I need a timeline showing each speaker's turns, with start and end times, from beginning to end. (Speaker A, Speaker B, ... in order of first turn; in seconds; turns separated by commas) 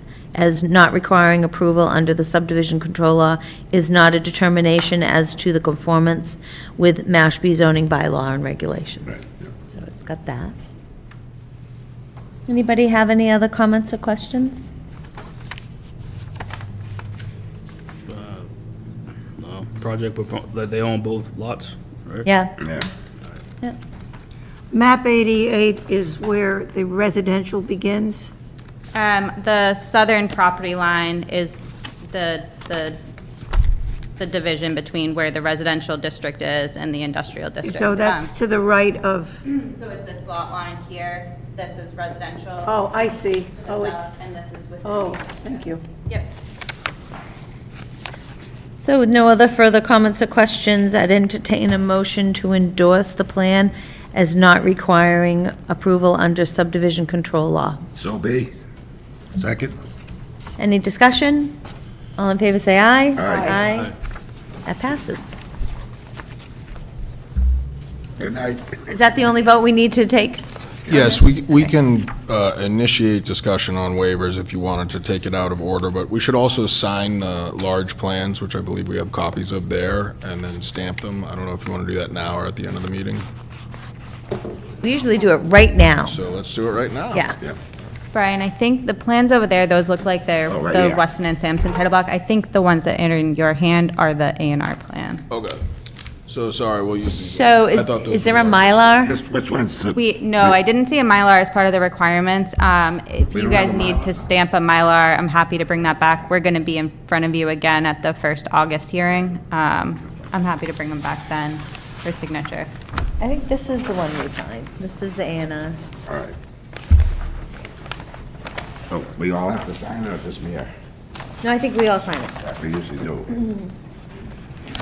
Speaker A: 0.3-10.5, Speaker A: 12.5-14.7, Speaker B: 18.1-18.5, Speaker B: 19.4-22.3, Speaker A: 22.2-22.6, Speaker C: 24.7-28.3, Speaker D: 28.9-33.0, Speaker D: 34.2-38.3, Speaker C: 37.6-39.4, Speaker D: 39.4-46.3, Speaker C: 42.7-44.1, Speaker C: 44.8-45.8, Speaker A: 48.7-57.8, Speaker E: 58.0-58.5, Speaker E: 59.4-59.7, Speaker A: 60.6-61.5, Speaker A: 62.2-63.9, Speaker A: 64.7-65.3, Speaker E: 68.2-68.8, Speaker A: 68.9-71.2, Speaker F: 70.9-83.2, Speaker A: 84.8-86.2, Speaker F: 86.0-87.4, Speaker D: 88.1-95.2, Speaker E: 90.5-91.0, Speaker F: 95.3-95.6, Speaker F: 96.3-98.8, Speaker A: 97.1-99.2, Speaker E: 99.1-100.0, Speaker D: 99.9-112.7, Speaker E: 103.3-104.1, Speaker A: 113.2-115.8, Speaker E: 116.1-116.3, Speaker E: 118.9-120.7, Speaker A: 121.4-122.4, Speaker E: 122.5-123.3, Speaker A: 123.3-123.7